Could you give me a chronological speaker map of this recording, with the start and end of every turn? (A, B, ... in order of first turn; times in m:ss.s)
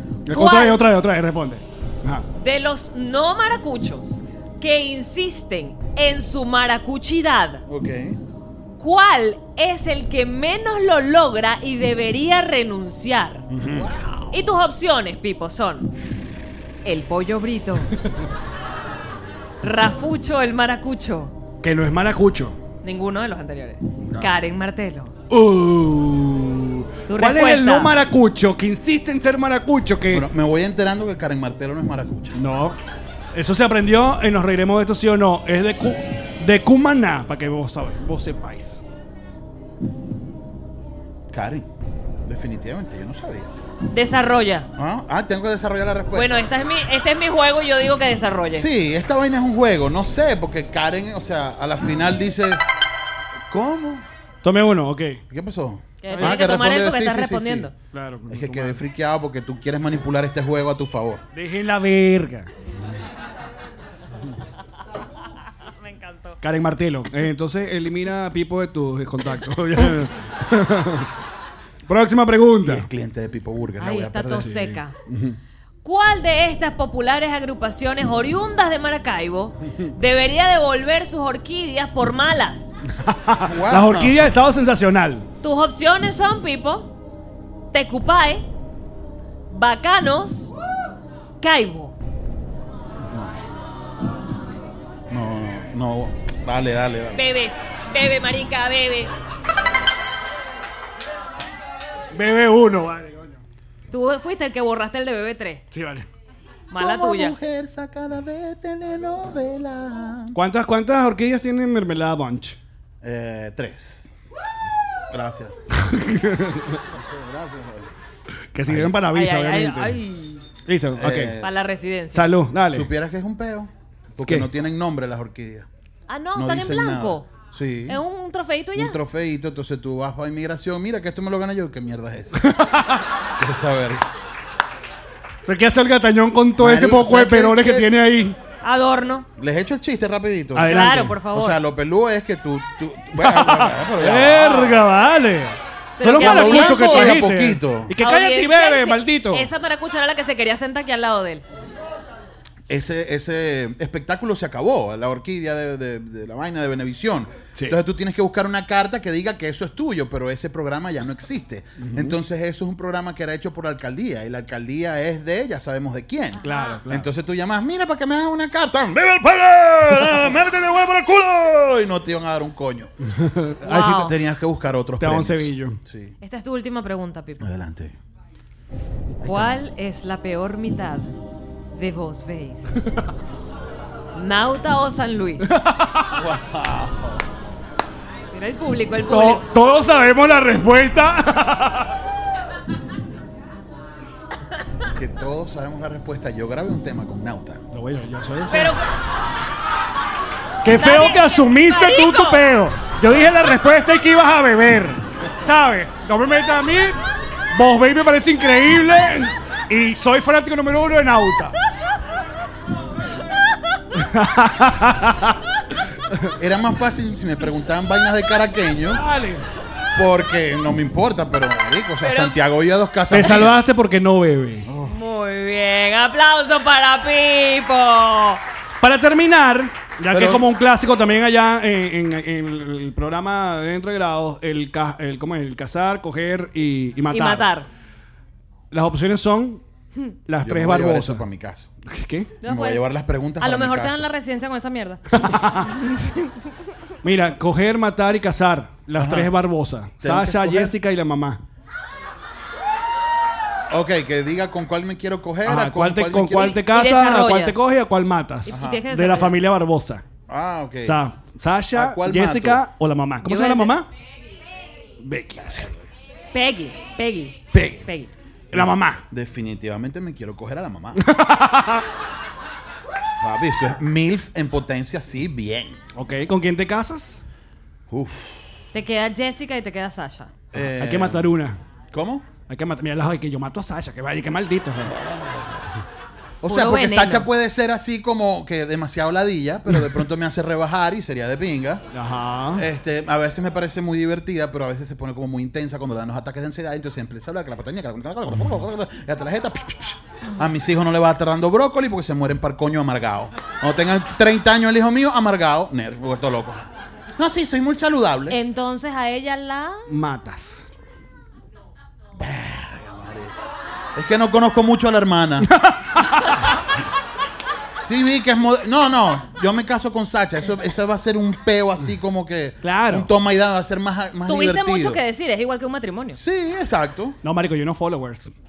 0:00.3-0:02.3 A
0:00.3-0:00.8 B
0:02.4-0:07.6 B
0:07.7-0:08.2 C
0:08.8-0:13.5 B
0:13.5-0:13.9 A
0:13.6-0:14.4 C
0:14.3-0:15.9 B
0:16.8-0:17.9 B
0:19.6-0:21.4 B
0:21.6-0:22.6 A
0:22.8-0:25.1 B
0:25.3-0:30.3 A
0:27.1-0:27.9 B
0:30.1-0:32.4 C
0:32.3-0:32.8 A
0:33.4-0:38.8 A
0:41.3-0:41.7 C
0:42.2-0:43.5 C
0:43.9-0:44.7 B
0:44.8-0:46.4 C
0:46.1-0:48.7 B
0:48.6-0:52.6 C
0:53.5-0:54.1 C
0:54.4-0:55.2 A
0:55.3-0:57.7 C
0:56.0-0:57.7 B
0:56.1-0:56.4 A
0:57.9-0:58.8 A
0:58.3-1:01.2 C
1:01.3-1:02.5 A
1:05.8-1:06.4 B
1:06.4-1:11.1 A
1:11.9-1:12.9 A
1:12.6-1:14.5 C
1:13.8-1:15.0 B
1:14.4-1:15.4 A
1:15.8-1:22.7 B
1:23.0-1:25.3 A
1:23.4-1:24.3 C
1:25.4-1:26.9 B
1:27.7-1:28.5 B
1:29.5-1:30.5 B
1:31.4-1:32.0 B
1:33.1-1:33.4 C
1:35.1-1:37.2 C
1:37.1-1:39.1 B
1:42.1-1:43.4 A
1:43.9-1:45.6 B
1:45.7-1:46.1 A
1:46.7-1:47.4 B
1:46.7-1:50.4 C
1:50.3-1:52.6 A
1:53.0-1:54.1 C
1:55.1-1:55.5 C
1:55.7-1:56.8 A
1:56.9-1:57.9 C
1:58.5-2:00.0 A
1:58.7-1:59.0 C
1:59.1-2:00.4 B
2:00.7-2:01.4 A
2:01.0-2:01.5 C
2:01.4-2:02.3 B
2:02.1-2:02.9 A
2:02.7-2:05.7 C
2:06.1-2:07.3 B
2:06.4-2:08.0 C
2:07.9-2:09.0 B
2:08.8-2:12.4 C
2:12.4-2:13.0 A
2:13.4-2:14.0 C
2:15.5-2:18.4 A
2:16.6-2:17.9 C
2:18.6-2:19.3 B
2:19.4-2:20.8 C
2:20.6-2:21.2 A
2:20.6-2:21.6 B
2:21.3-2:24.8 C
2:23.2-2:29.5 A
2:26.0-2:27.2 B
2:26.2-2:27.9 C
2:28.0-2:31.4 B
2:32.7-2:52.9 C
2:41.8-2:42.1 A
2:46.4-2:46.8 B
2:46.4-2:47.1 A
2:53.2-2:54.0 A
2:53.6-2:54.2 B
2:53.7-2:56.2 C
2:55.0-2:55.8 A
2:56.2-2:57.4 B
2:57.4-2:58.0 C
2:59.1-2:59.6 C
2:59.2-3:01.1 B
3:01.7-3:02.7 B
3:04.1-3:05.5 B
3:05.5-3:06.2 A
3:06.1-3:07.2 C
3:08.3-3:09.5 B
3:09.1-3:11.9 A
3:14.9-3:17.6 C
3:17.7-3:18.8 A
3:18.5-3:18.8 B
3:20.6-3:27.0 A
3:20.7-3:22.4 B
3:27.5-3:31.6 A
3:34.0-3:35.4 A
3:36.4-3:39.0 C
3:39.0-3:39.5 A
3:40.0-3:43.6 C
3:42.0-3:42.4 B
3:43.1-3:44.7 A
3:44.7-3:44.9 C
3:44.8-3:48.4 B
3:48.8-3:57.5 A
3:50.1-3:50.4 C
3:57.1-3:57.7 B
3:58.7-3:59.6 A
4:00.3-4:01.2 A
4:00.4-4:01.7 C
4:01.8-4:02.3 A
4:02.4-4:02.8 B
4:02.4-4:04.1 C
4:03.4-4:05.0 B
4:05.1-4:05.7 A
4:05.7-4:06.4 B
4:07.0-4:11.4 A
4:09.0-4:09.3 C
4:10.0-4:10.7 C
4:13.7-4:16.6 C
4:15.4-4:20.0 A
4:16.6-4:17.6 B
4:18.5-4:19.4 B
4:18.5-4:18.8 C
4:20.3-4:21.0 C
4:20.8-4:23.9 A
4:21.7-4:22.6 C
4:23.2-4:23.8 B
4:25.0-4:25.7 A
4:26.3-4:28.1 B
4:27.5-4:27.8 A
4:28.5-4:29.0 A
4:28.5-4:31.0 C
4:31.0-4:31.8 A
4:33.2-4:35.8 C
4:36.0-4:37.2 A
4:37.9-4:38.4 C
4:38.7-4:40.3 B
4:40.5-4:41.3 C
4:40.5-4:41.6 A
4:41.9-4:42.3 C
4:42.5-4:45.2 A
4:46.4-4:51.8 C
4:46.5-4:47.3 B
4:51.9-4:52.7 A
4:52.6-5:06.7 C
5:07.2-5:08.4 C
5:08.3-5:09.8 B
5:09.9-5:10.6 A
5:12.2-5:13.3 C
5:14.0-5:15.5 C
5:15.5-5:16.3 A
5:17.8-5:25.0 C
5:22.6-5:23.1 A
5:24.3-5:26.2 B
5:26.2-5:27.2 C
5:27.2-5:28.3 A